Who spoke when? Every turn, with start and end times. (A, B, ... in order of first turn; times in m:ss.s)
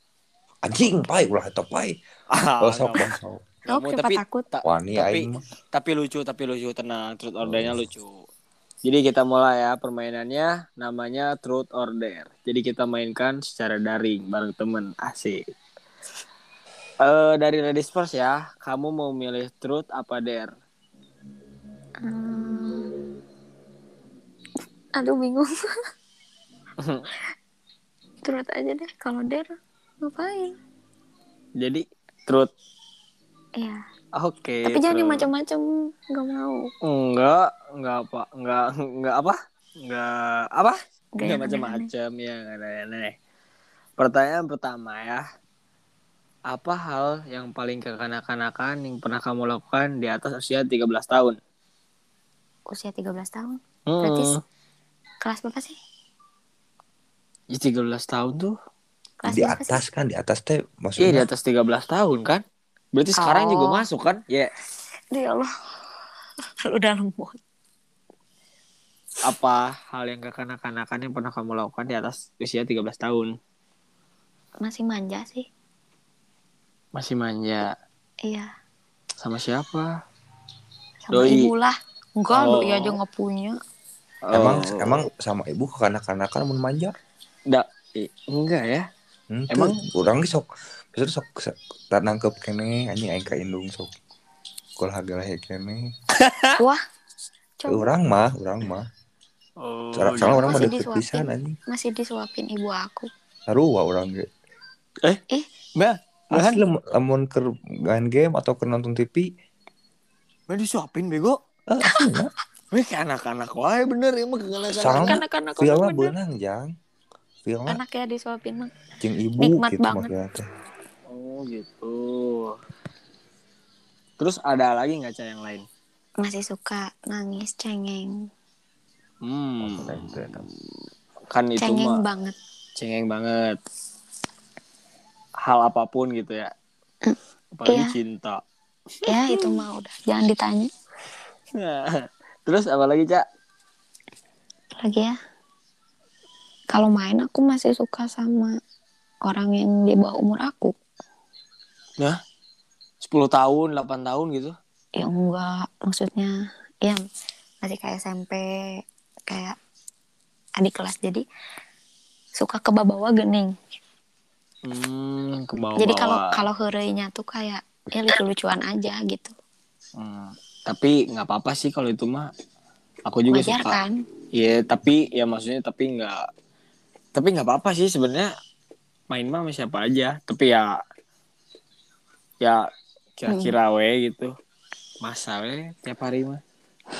0:00.6-0:02.0 A
0:02.3-0:03.1 B
0:02.6-0:03.5 A
0:03.7-0:08.2 B
0:03.7-0:04.5 C
0:04.6-0:05.4 A
0:07.4-0:07.8 A
0:08.8-0:15.4 B
0:17.0-0:20.5 B
0:22.0-0:22.9 C
0:25.0-0:25.5 C
0:26.8-0:27.1 B
0:28.2-0:29.5 C
0:30.0-0:30.6 C
0:31.6-0:32.5 B
0:34.2-0:35.3 B
0:34.6-0:36.7 C
0:36.8-0:43.2 B
0:41.2-0:41.9 C
0:44.0-0:45.2 B
0:46.5-0:51.4 B
0:52.7-0:54.3 C
0:53.9-0:54.4 B
0:55.2-0:55.8 C
0:57.5-0:58.6 B
0:59.2-0:59.8 C
0:59.3-1:01.3 A
1:01.0-1:02.4 B
1:03.0-1:04.5 B
1:03.2-1:03.8 C
1:05.1-1:05.5 C
1:06.6-1:07.4 C
1:09.2-1:13.3 B
1:14.6-1:15.4 C
1:17.0-1:17.7 B
1:18.2-1:18.5 C
1:19.2-1:19.9 B
1:21.1-1:23.6 C
1:21.1-1:21.5 B
1:22.3-1:23.0 B
1:24.3-1:25.0 B
1:24.3-1:26.9 A
1:27.5-1:28.9 B
1:29.3-1:33.9 A
1:29.5-1:29.8 B
1:34.8-1:35.8 A
1:36.2-1:36.6 B
1:37.6-1:37.9 C
1:37.7-1:38.8 A
1:39.6-1:40.7 B
1:40.0-1:41.6 A
1:40.4-1:43.1 C
1:43.5-1:44.3 A
1:45.8-1:46.6 B
1:46.3-1:49.3 A
1:50.5-1:51.4 B
1:51.7-1:52.3 A
1:52.7-1:55.2 B
1:54.7-1:56.7 A
1:55.0-1:56.1 C
1:57.4-1:57.8 A
1:57.7-1:58.7 C
1:59.0-2:00.5 A
1:59.4-2:00.1 C
2:01.1-2:02.6 B
2:04.2-2:05.6 B
2:06.2-2:08.1 C
2:09.2-2:10.2 B
2:09.6-2:10.5 A
2:11.3-2:12.0 B
2:11.6-2:12.4 C
2:12.8-2:13.6 B
2:15.4-2:16.5 B
2:17.0-2:17.9 C
2:17.6-2:18.4 B
2:19.0-2:19.6 B
2:19.1-2:20.7 C
2:21.6-2:23.2 B
2:24.8-2:25.2 C
2:26.7-2:28.5 C
2:29.2-2:30.7 C
2:33.0-2:34.5 B
2:35.0-2:37.0 C
2:37.6-2:39.6 C
2:40.6-2:41.2 C
2:42.4-2:43.5 C
2:44.7-2:46.3 B
2:45.8-2:49.3 C
2:50.0-2:52.3 B
2:53.1-2:53.8 B
2:53.3-2:53.9 C
2:54.3-2:56.2 B
2:57.2-2:58.3 B
2:59.1-3:00.8 B
3:03.2-3:04.3 B
3:03.3-3:03.5 C
3:05.0-3:06.4 B